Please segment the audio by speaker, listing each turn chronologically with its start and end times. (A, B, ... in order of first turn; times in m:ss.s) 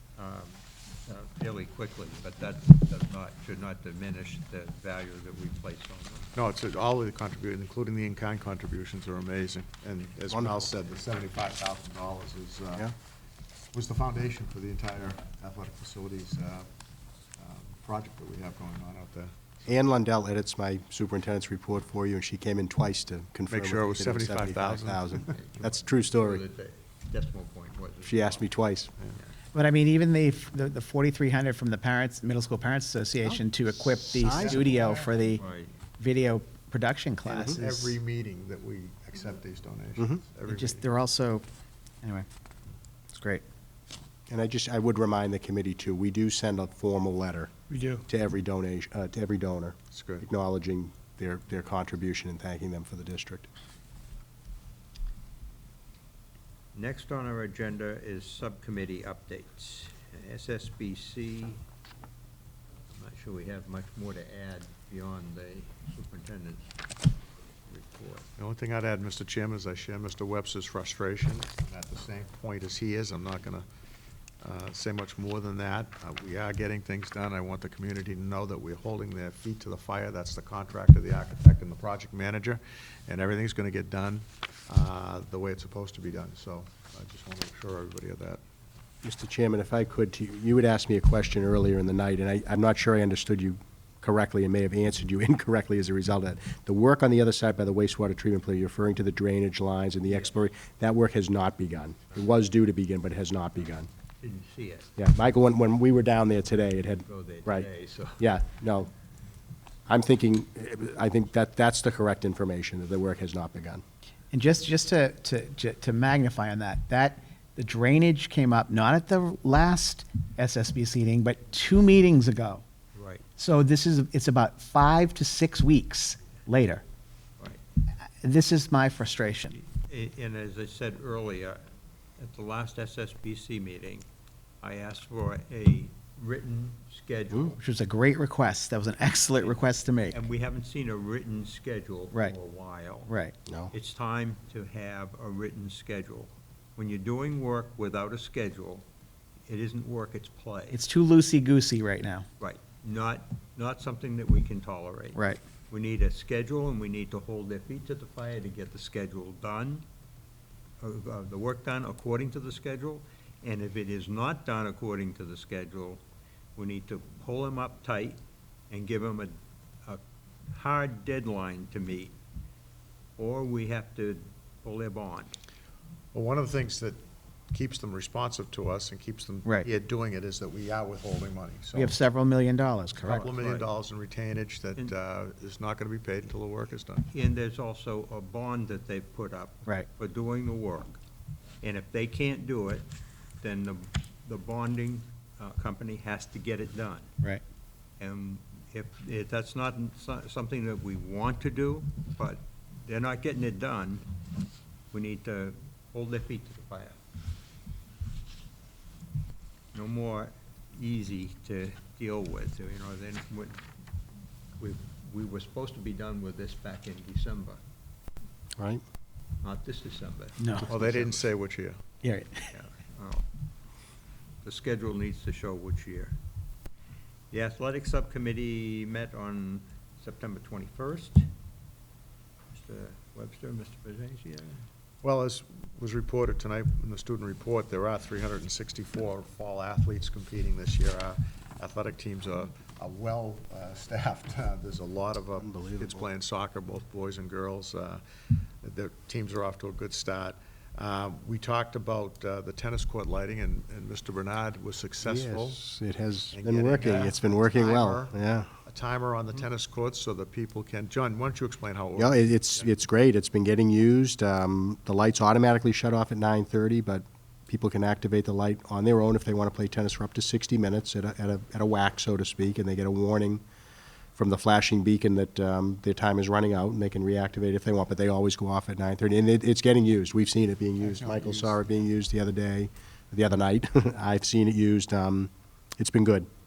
0:00.2-0:06.3 A
0:06.4-0:12.9 B
0:10.3-0:10.6 C
0:13.7-0:16.7 B
0:17.4-0:19.6 B
0:19.7-0:26.4 C
0:23.5-0:25.2 B
0:25.2-0:28.5 A
0:28.0-0:28.9 C
0:29.5-0:35.4 D
0:33.2-0:34.8 C
0:34.3-0:35.2 B
0:35.4-0:35.7 A
0:36.0-0:38.0 D
0:37.3-0:40.9 B
0:40.5-0:41.4 D
0:43.1-0:43.4 D
0:44.3-0:53.5 C
0:49.9-0:50.3 B
0:56.7-1:01.6 A
1:02.9-1:06.7 A
1:07.7-1:08.3 A
1:08.4-1:13.7 B
1:14.4-1:28.4 B
1:29.0-1:43.9 C
1:44.2-1:45.0 A
1:45.0-1:47.7 C
1:47.1-1:48.3 A
1:48.2-1:48.9 C
1:49.9-1:53.8 C
1:54.3-2:02.6 D
2:03.0-2:03.2 A
2:03.4-2:06.8 D
2:08.2-2:09.6 D
2:09.6-2:11.6 A
2:12.2-2:14.1 A
2:14.6-2:17.6 A
2:17.6-2:20.2 D
2:19.4-2:23.1 A
2:23.1-2:23.4 D
2:23.5-2:23.7 C
2:23.7-2:28.8 A
2:29.5-2:30.8 A
2:30.7-2:32.3 D
2:32.4-2:39.8 A
2:35.2-2:35.4 D
2:40.8-2:46.0 A
2:46.6-2:48.2 A
2:48.7-2:50.0 A
2:50.5-2:52.1 A
2:53.2-2:55.4 A
2:56.1-2:57.0 B
2:57.5-3:02.0 B
3:01.8-3:03.3 D
3:03.1-3:07.1 B
3:03.1-3:03.7 A
3:07.1-3:11.0 A
3:11.6-3:12.9 A
3:13.4-3:17.1 A
3:18.0-3:24.0 A
3:24.9-3:27.0 A
3:29.7-3:33.6 A
3:34.6-3:37.6 A
3:38.6-3:38.8 C
3:39.4-3:41.3 A
3:40.4-3:40.7 D
3:40.7-3:41.8 B
3:42.0-3:42.5 D
3:42.5-3:43.2 A
3:44.4-3:46.2 A
3:47.3-3:51.3 A
3:52.5-3:54.6 A
3:55.0-4:08.0 B
4:05.4-4:06.0 C
4:08.6-4:15.6 B
4:15.0-4:18.5 C
4:16.3-4:22.7 B
4:22.0-4:33.4 C
4:34.2-4:46.3 C